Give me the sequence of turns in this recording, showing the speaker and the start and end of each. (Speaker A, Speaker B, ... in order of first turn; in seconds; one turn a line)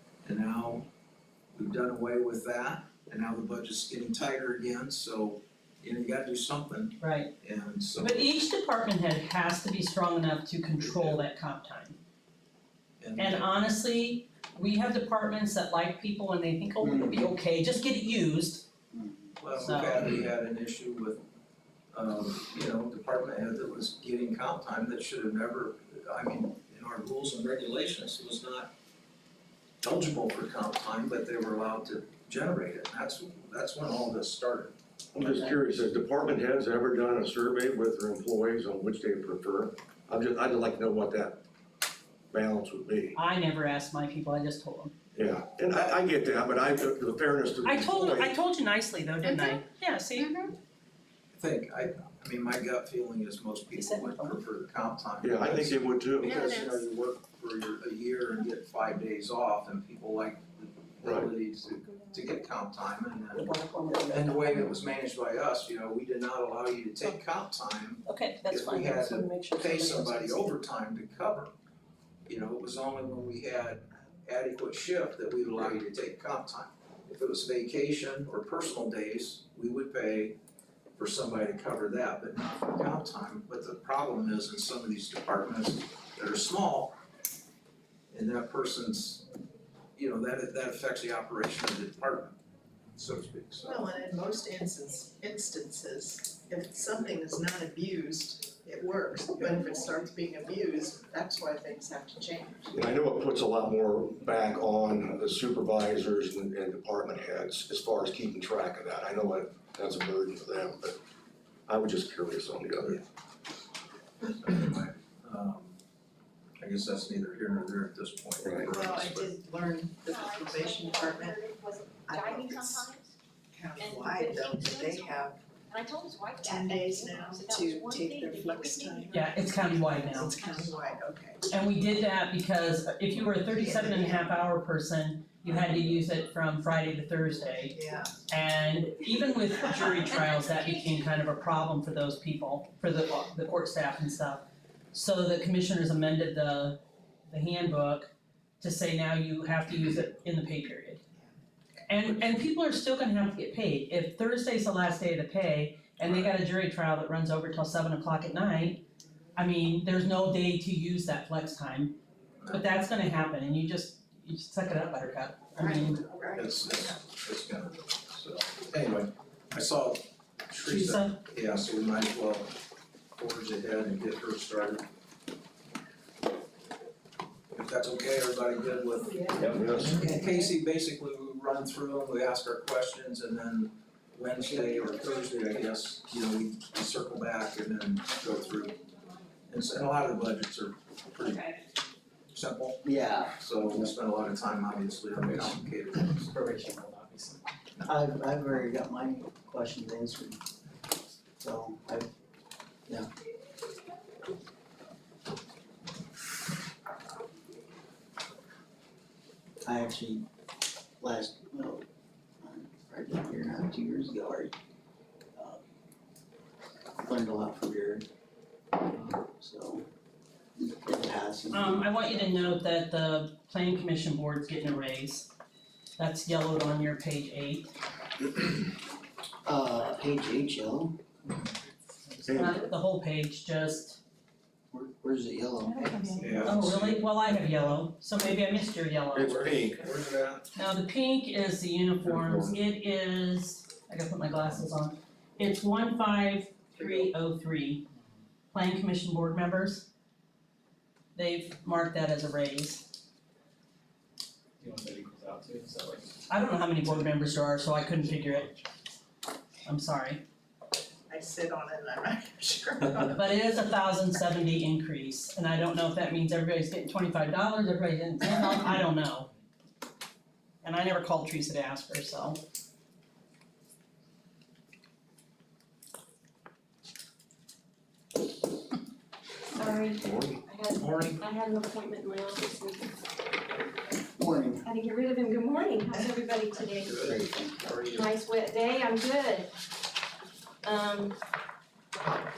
Speaker A: 0.2-0.9
Speaker A: 1.6-8.2
Speaker B: 7.0-7.3
Speaker B: 8.0-12.0
Speaker A: 10.8-11.2
Speaker A: 13.0-13.6
Speaker B: 13.2-18.6
Speaker C: 16.8-17.3
Speaker C: 18.9-19.4
Speaker A: 19.4-21.2
Speaker B: 19.6-20.0
Speaker A: 21.9-28.7
Speaker A: 29.8-34.8
Speaker D: 35.1-41.4
Speaker D: 42.3-43.2
Speaker B: 43.1-44.9
Speaker D: 45.1-48.3
Speaker B: 47.6-50.3
Speaker E: 49.3-49.6
Speaker E: 50.2-50.5
Speaker A: 51.3-71.5
Speaker B: 53.8-54.4
Speaker D: 55.2-56.5
Speaker E: 56.3-56.8
Speaker C: 63.4-64.4
Speaker B: 68.0-70.5
Speaker A: 72.3-80.4
Speaker A: 81.0-87.0
Speaker A: 88.1-89.2
Speaker A: 90.0-92.4
Speaker A: 93.0-93.8
Speaker F: 93.6-102.8
Speaker D: 102.7-111.0
Speaker D: 111.7-113.0
Speaker A: 114.3-115.8
Speaker A: 116.6-119.3
Speaker D: 118.4-118.7
Speaker F: 118.7-121.4
Speaker E: 120.1-123.1
Speaker F: 122.0-122.9
Speaker F: 123.5-125.4
Speaker E: 123.8-130.9
Speaker F: 126.4-131.5
Speaker B: 129.1-130.4
Speaker B: 131.5-137.8
Speaker F: 133.6-134.3
Speaker F: 137.7-138.2
Speaker B: 138.3-151.0
Speaker B: 151.9-158.8
Speaker B: 159.4-162.0
Speaker A: 162.4-162.8
Speaker B: 162.5-166.1
Speaker F: 165.6-166.9
Speaker A: 166.3-172.5
Speaker B: 170.7-171.2
Speaker A: 173.2-174.8
Speaker A: 177.5-188.8
Speaker D: 179.4-180.1
Speaker A: 189.5-191.5
Speaker E: 191.2-191.6
Speaker A: 192.3-192.8
Speaker C: 192.8-193.9
Speaker A: 193.4-196.3
Speaker G: 196.3-197.4
Speaker C: 197.8-200.4
Speaker C: 201.4-202.1
Speaker C: 209.6-210.2
Speaker C: 211.0-211.9
Speaker C: 212.4-214.5
Speaker C: 215.4-215.6
Speaker C: 217.0-218.1
Speaker C: 218.9-219.9
Speaker C: 220.6-222.5
Speaker B: 221.5-225.3
Speaker B: 226.0-227.8
Speaker C: 228.4-228.7
Speaker C: 229.4-231.0
Speaker D: 232.2-232.6
Speaker B: 232.4-234.0
Speaker C: 234.7-236.3
Speaker E: 235.9-236.4
Speaker A: 236.2-237.0
Speaker B: 236.4-239.6
Speaker D: 239.1-240.4
Speaker B: 240.6-247.8
Speaker D: 242.0-242.6
Speaker A: 246.8-247.1
Speaker B: 248.5-249.9
Speaker B: 251.2-252.9
Speaker G: 254.6-256.1
Speaker B: 256.3-258.5
Speaker B: 259.6-260.2
Speaker F: 261.1-263.2
Speaker B: 263.1-269.3
Speaker B: 270.6-272.4
Speaker E: 279.5-283.0
Speaker D: 280.0-280.4
Speaker A: 280.8-281.2
Speaker C: 284.2-284.7
Speaker E: 284.6-287.0
Speaker A: 286.8-288.1
Speaker C: 287.0-287.7
Speaker E: 287.9-289.5
Speaker E: 290.6-291.2